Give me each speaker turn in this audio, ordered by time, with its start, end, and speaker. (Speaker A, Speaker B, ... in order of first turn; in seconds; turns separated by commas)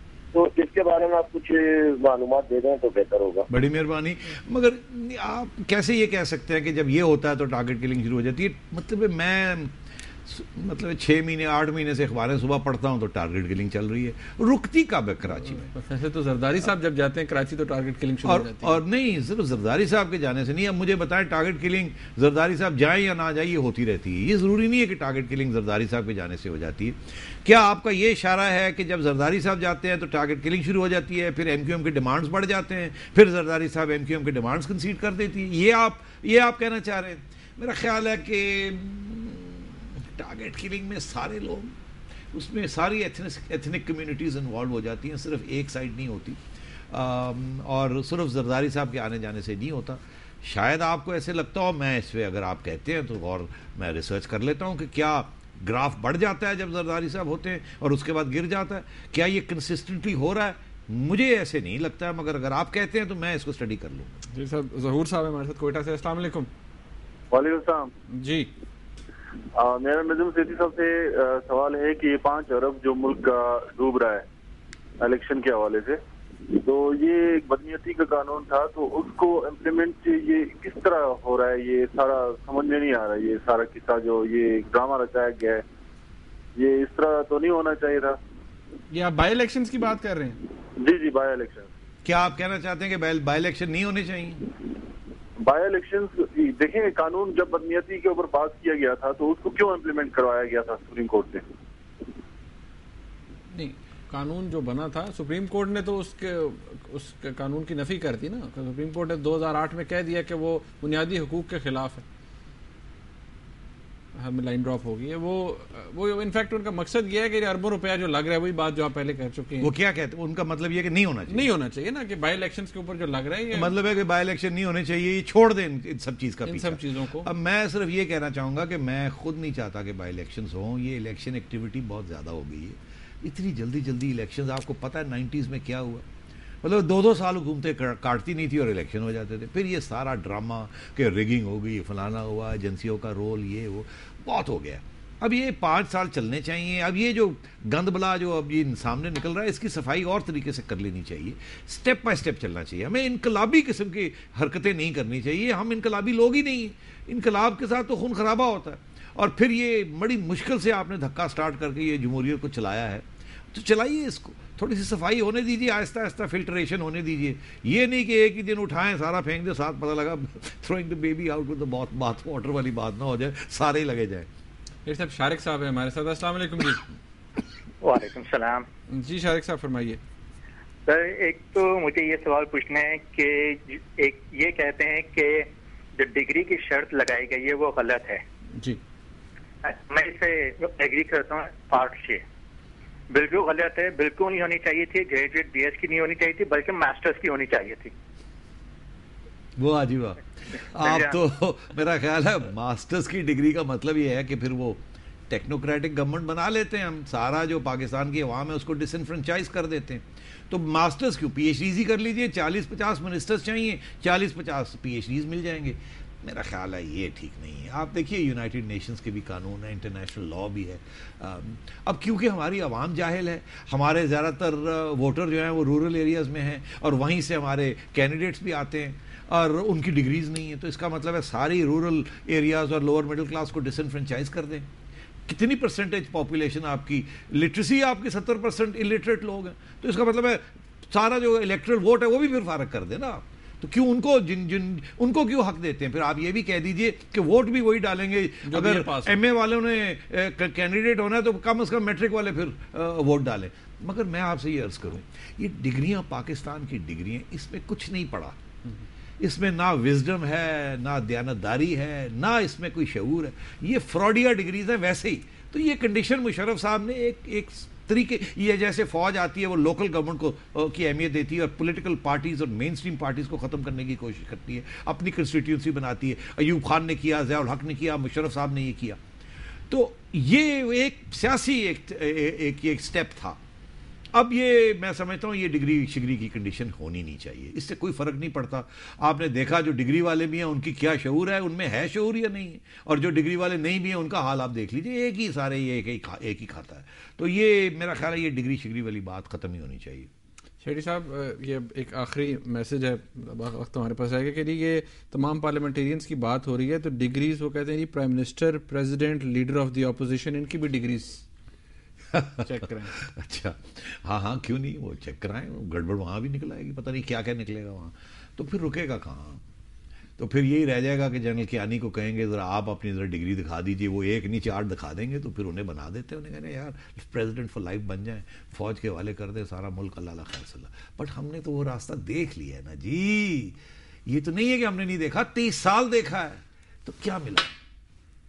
Speaker A: 0.3-3.4, Speaker B: 3.5-9.7, Speaker B: 10.3-15.7, Speaker C: 15.4-18.8, Speaker B: 18.2-41.7, Speaker B: 42.3-46.4, Speaker B: 46.9-64.1, Speaker C: 64.3-66.5, Speaker D: 67.3-67.9, Speaker C: 68.1-68.5, Speaker D: 69.5-74.2, Speaker D: 75.0-85.6, Speaker D: 86.5-88.2, Speaker C: 88.9-90.4, Speaker D: 90.8-91.7, Speaker B: 92.0-94.4, Speaker D: 95.4-101.4, Speaker C: 103.5-112.0, Speaker C: 114.2-119.7, Speaker B: 119.6-121.5, Speaker C: 121.3-123.7, Speaker B: 123.5-136.0, Speaker C: 126.4-127.3, Speaker B: 136.6-174.3, Speaker C: 174.8-176.8, Speaker E: 177.8-178.7, Speaker C: 178.9-180.0, Speaker E: 180.8-188.2, Speaker E: 189.6-192.2, Speaker E: 193.1-197.9, Speaker B: 199.6-234.7, Speaker E: 200.8-201.1, Speaker B: 235.3-258.4, Speaker C: 248.4-249.2, Speaker B: 259.2-279.0, Speaker B: 279.7-283.4, Speaker B: 284.1-300.1, Speaker C: 300.6-311.2, Speaker B: 312.1-312.4, Speaker C: 312.4-313.0, Speaker B: 313.0-319.4, Speaker B: 320.2-337.5